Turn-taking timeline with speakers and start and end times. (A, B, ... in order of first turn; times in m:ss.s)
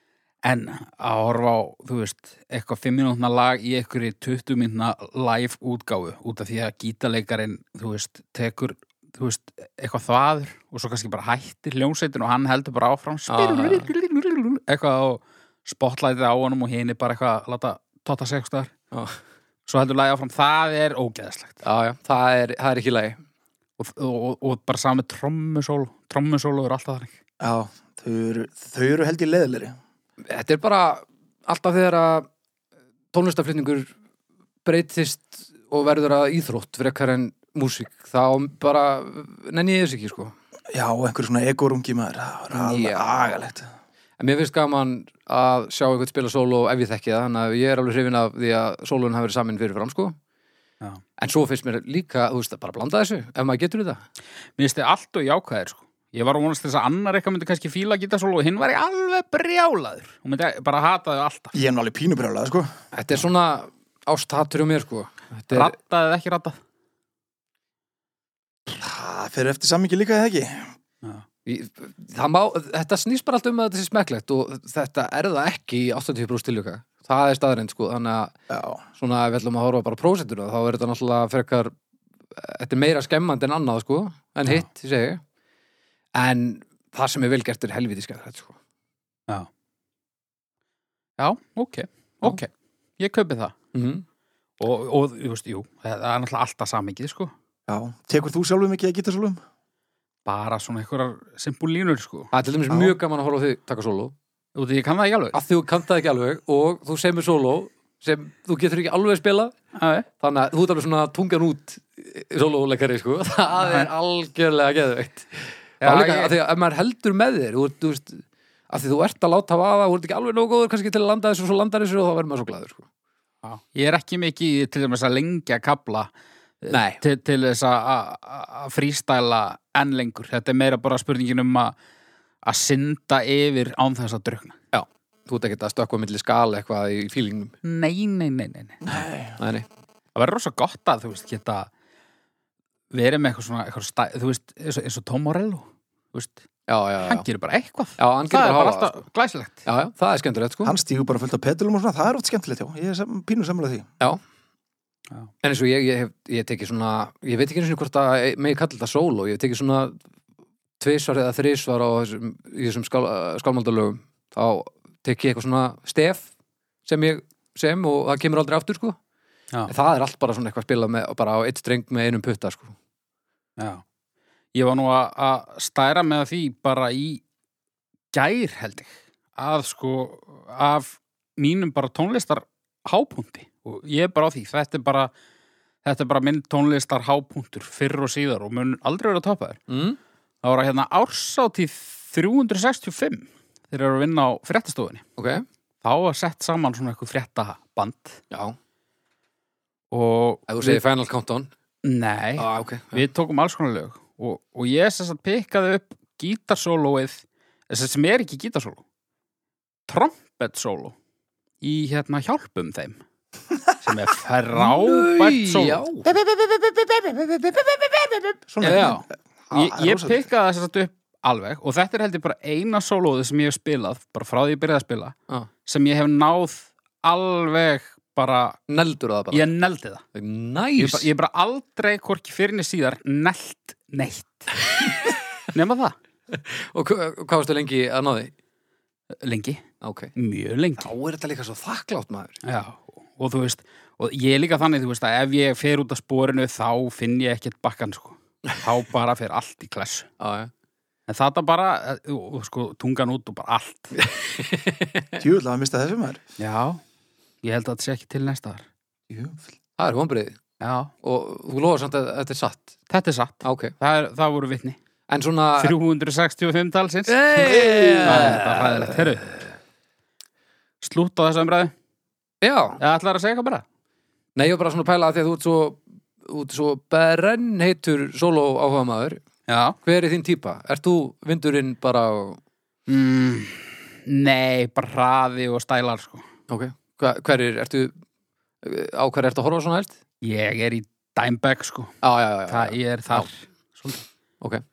0:00.4-0:18.7 A
0:13.3-0:13.9 B
0:18.9-0:19.2 B
0:19.7-0:21.6 A
0:21.6-0:23.2 B
0:23.8-0:27.1 A
0:27.4-0:29.7 C
0:30.3-0:32.3 B
0:33.1-0:33.9 B
0:34.6-0:40.3 B
0:40.7-0:43.6 C
0:42.5-0:43.4 B
0:44.2-0:50.2 B
0:51.2-0:54.0 B
0:54.6-1:01.5 A
1:01.5-1:02.7 C
1:02.9-1:05.7 B
1:05.5-1:06.6 A
1:08.7-1:10.7 C
1:11.4-1:18.3 B
1:18.5-1:18.8 C
1:19.0-1:21.7 B
1:22.3-1:25.2 B
1:26.1-1:28.6 B
1:31.2-1:33.5 A
1:33.7-1:34.0 B
1:34.6-1:37.3 A
1:37.7-1:39.4 C
1:40.2-1:42.3 A
1:42.3-1:44.1 B
1:42.7-1:43.0 C
1:44.5-1:45.4 A
1:45.3-1:49.5 B
1:49.8-1:50.1 A
1:50.2-2:02.8 B
1:53.6-1:53.9 A
1:55.8-1:56.3 A
2:03.4-2:06.1 A
2:06.6-2:11.7 A
2:06.7-2:07.0 B
2:12.4-2:14.6 A
2:14.7-2:17.5 B
2:17.6-2:18.8 A
2:18.8-2:19.4 C
2:19.4-2:19.6 B
2:20.1-2:21.7 A
2:22.9-2:26.4 A
2:26.7-2:27.2 B
2:27.0-2:29.6 A
2:28.0-2:29.0 B
2:29.6-2:30.7 B
2:30.6-2:33.9 C
2:35.4-2:40.0 B
2:40.8-2:46.3 B
2:46.8-2:49.0 B
2:49.7-2:52.7 B
2:53.6-2:53.8 A
2:54.5-2:57.2 A
2:58.1-3:05.1 A
3:05.8-3:09.6 A
3:09.7-3:10.0 B
3:10.4-3:15.0 A
3:15.2-3:15.4 B
3:15.8-3:18.2 A
3:18.3-3:18.6 B
3:19.9-3:20.8 A
3:20.5-3:21.5 B
3:21.8-3:28.8 A
3:22.4-3:23.0 B
3:29.9-3:30.9 A
3:31.6-3:33.0 A
3:33.8-3:45.1 A
3:34.5-3:36.2 B
3:38.5-3:40.2 C
3:38.6-3:39.0 B
3:45.6-3:48.6 A
3:48.7-3:49.5 B
3:49.3-3:50.0 A
3:50.1-3:51.1 B
3:50.8-3:54.5 A
3:54.8-3:55.1 B
3:55.5-3:55.9 A
3:56.3-3:58.3 B
3:59.2-3:59.6 A
3:59.8-4:00.1 B
4:00.2-4:00.9 A
4:00.8-4:02.4 B
4:02.4-4:10.1 A
4:10.2-4:10.5 B
4:11.1-4:14.0 A
4:13.9-4:15.2 B
4:15.2-4:16.2 C
4:16.4-4:16.8 A
4:17.4-4:18.6 A
4:19.1-4:19.4 C
4:19.8-4:20.4 B
4:20.6-4:20.9 A
4:21.0-4:22.7 B
4:22.9-4:24.8 A
4:23.4-4:23.7 B
4:25.1-4:25.7 B
4:25.6-4:29.5 A
4:27.1-4:29.0 B
4:27.6-4:28.2 C
4:30.8-4:31.7 A
4:32.4-4:32.8 B
4:32.8-4:33.6 A
4:34.4-4:39.2 B
4:39.5-4:39.8 A
4:39.8-4:42.4 B
4:42.9-4:46.2 A
4:46.5-4:47.9 B
4:48.6-4:50.0 B
4:50.2-4:54.0 A
4:52.0-4:53.3 B